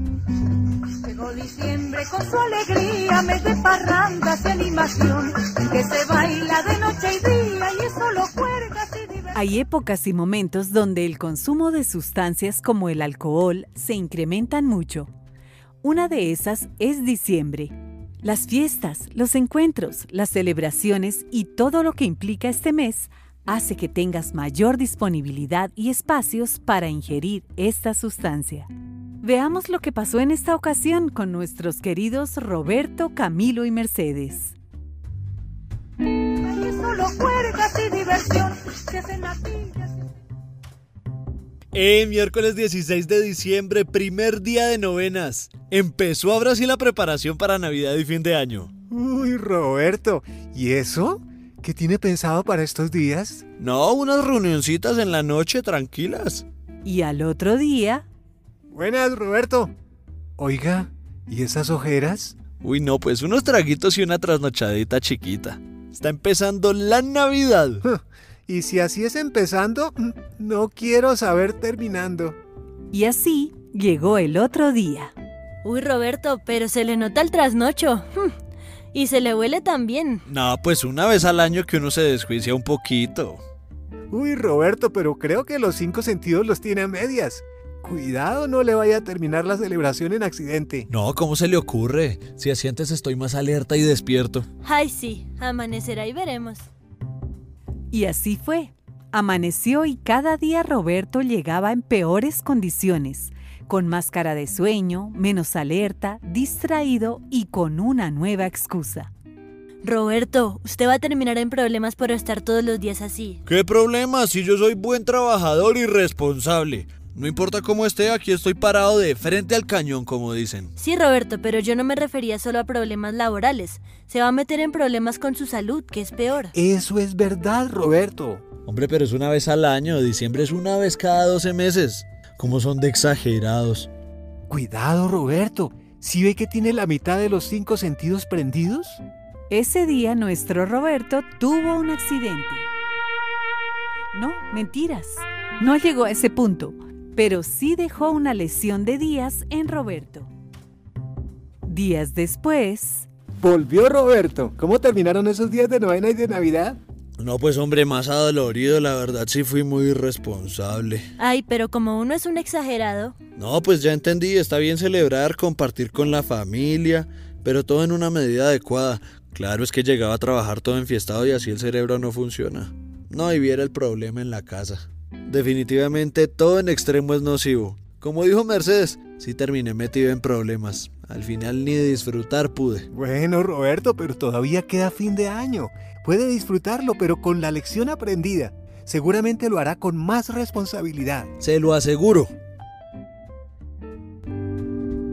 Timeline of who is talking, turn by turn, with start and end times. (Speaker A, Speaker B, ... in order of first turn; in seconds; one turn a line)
Speaker A: 0.8-9.3
Speaker B: 9.3-15.1
Speaker B: 15.8-28.7
Speaker B: 29.2-34.5
Speaker A: 36.2-40.0
Speaker C: 41.7-48.7
Speaker D: 48.9-53.4
Speaker C: 53.6-56.4
Speaker B: 56.8-58.0
Speaker D: 58.7-59.7
Speaker D: 60.4-62.4
Speaker C: 62.6-67.8
Speaker D: 67.8-72.4
Speaker B: 72.9-75.1
Speaker E: 75.6-78.3
Speaker E: 78.9-80.2
Speaker C: 80.3-83.4
Speaker D: 84.1-90.9
Speaker C: 90.9-94.5
Speaker E: 94.6-96.7
Speaker B: 97.9-109.1
Speaker E: 109.8-113.4
Speaker C: 113.5-120.7
Speaker E: 120.8-126.5
Speaker D: 126.5-128.4
Speaker C: 128.7-133.9
Speaker D: 134.5-139.0
Speaker B: 139.5-142.7
Speaker B: 144.1-150.3
Speaker B: 151.6-153.1
Speaker D: 153.4-156.8
Speaker C: 157.2-161.0
Speaker E: 161.2-163.2
Speaker C: 163.3-182.9
Speaker D: 182.9-191.3
Speaker C: 191.4-192.3